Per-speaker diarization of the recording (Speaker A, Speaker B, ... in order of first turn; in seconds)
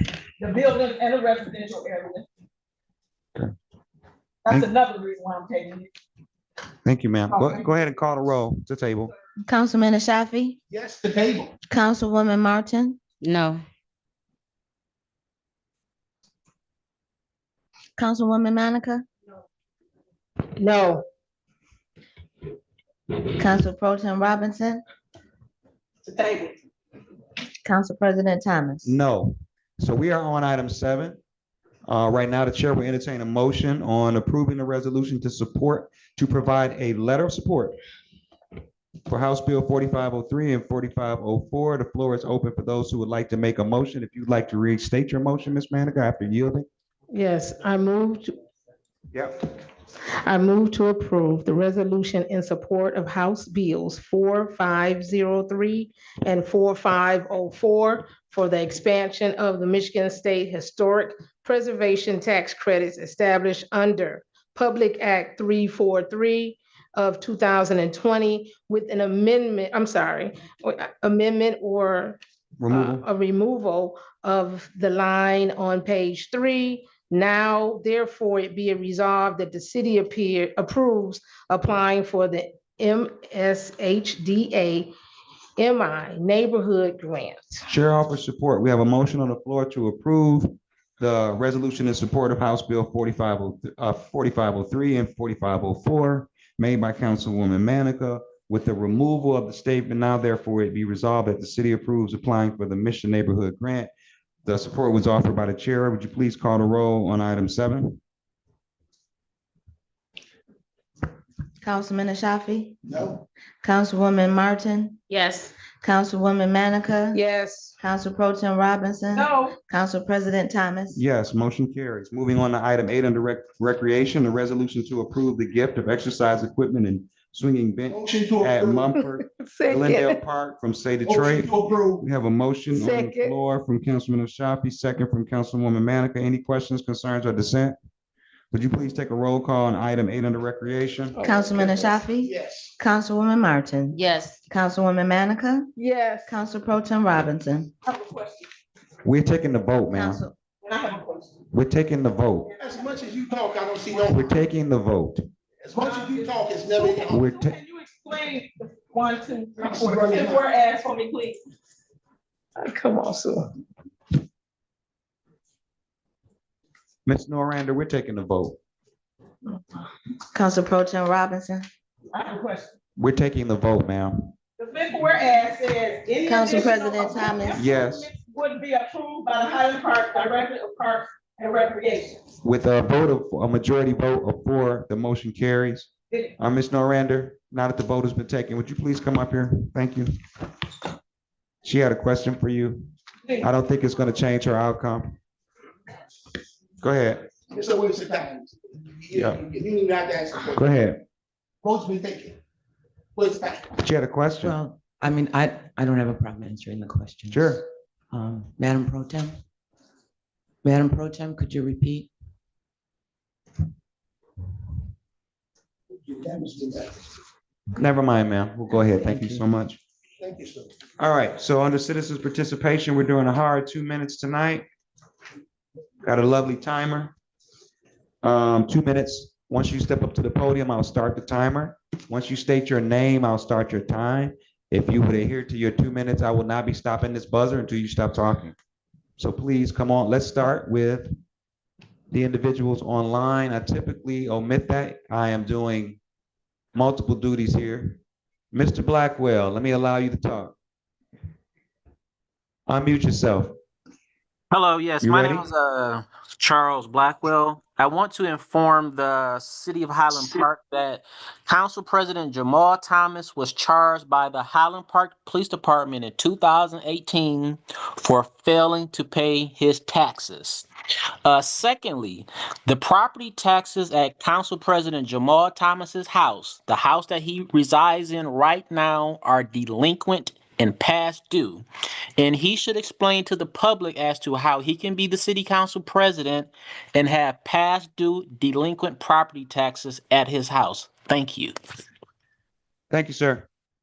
Speaker A: 0.4-2.3, 4.5-5.9, 7.3-7.7, 26.1-26.6, 119.1-119.6, 147.8-148.5, 150.6-151.4, 155.8-161.4, 172.1-172.7, 174.6-182.2
Speaker B: 6.8-9.1, 28.8-31.2, 31.9-37.8, 39.1-46.7, 72.6-73.0, 87.7-103.9, 104.5-108.0, 120.9-137.8, 138.5-141.2, 149.0-150.2, 151.5-152.5, 154.1-155.3, 157.1-157.6, 167.1-168.6, 173.0-174.3, 177.5-178.1, 182.4-190.2, 191.6-192.9, 193.4-195.2, 196.8-197.3, 199.2-199.4, 200.6-201.0, 203.8-204.6, 207.3-207.6, 217.8-219.8, 221.0-224.7, 226.0-227.1, 228.2-238.6, 239.2-241.1, 242.1-246.0, 246.7-248.0, 248.5-250.6, 252.7-253.6, 255.0-255.5, 292.9-293.5
Speaker C: 9.4-10.6, 11.7-13.0, 18.0-19.1, 23.3-24.8, 27.6-28.9, 111.6-112.8, 113.6-115.0, 115.7-117.2, 117.8-121.0, 141.2-145.7, 146.3-147.7, 149.9-150.3, 170.3-171.7, 176.2-177.6
Speaker D: 10.7-11.5, 112.8-113.2, 127.9-128.9, 131.1-132.1, 141.5-142.7, 152.6-154.3, 155.6-157.2, 159.6-160.5, 197.5-200.6, 201.6-202.4, 203.2-203.8, 216.1-217.0, 220.2-220.7
Speaker E: 20.6-21.1, 47.1-48.4, 50.2-84.9, 85.6-87.6, 117.1-117.8, 129.3-130.2, 132.8-133.3, 141.2-141.5, 145.8-146.3, 162.6-163.5
Speaker F: 204.4-209.4, 210.6-212.1, 218.7-219.4
Speaker G: 254.5-270.7, 271.2-281.6, 282.2-291.5